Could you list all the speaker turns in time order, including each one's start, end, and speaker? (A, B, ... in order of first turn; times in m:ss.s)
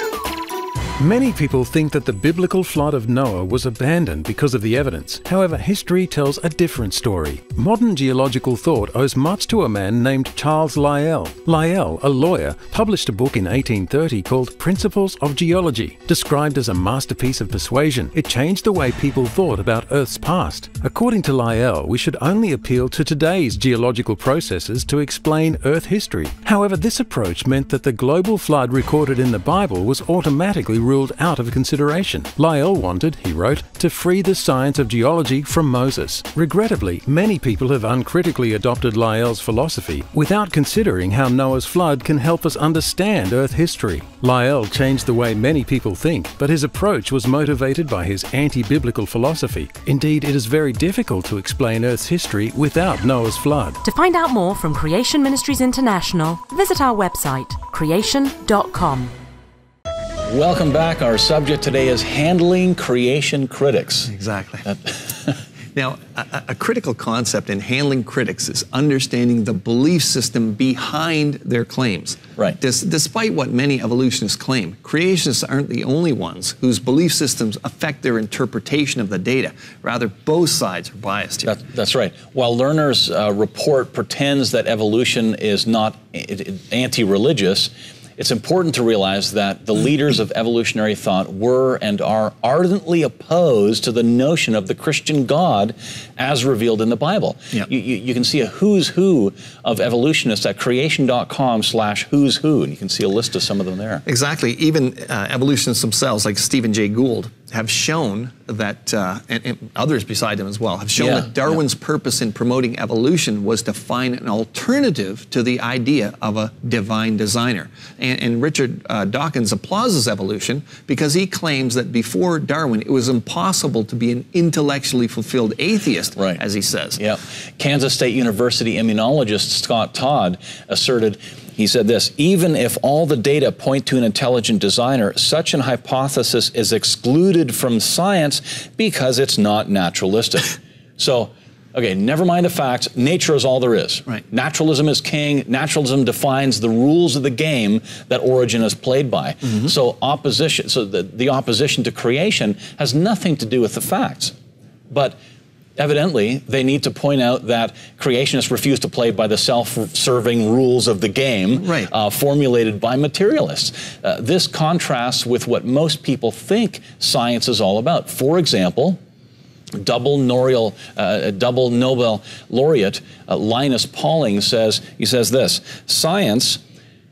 0:01.0-0:53.8 A
0:53.8-0:59.1 B
1:00.3-1:04.1 C
1:04.1-1:04.7 D
1:05.7-1:21.5 D
1:21.4-1:44.0 C
1:44.0-2:07.0 D
1:51.0-1:51.3 C
2:07.0-2:34.3 C
2:34.9-2:35.2 C
2:35.8-2:49.0 C
2:41.6-2:41.9 D
2:49.8-2:56.6 C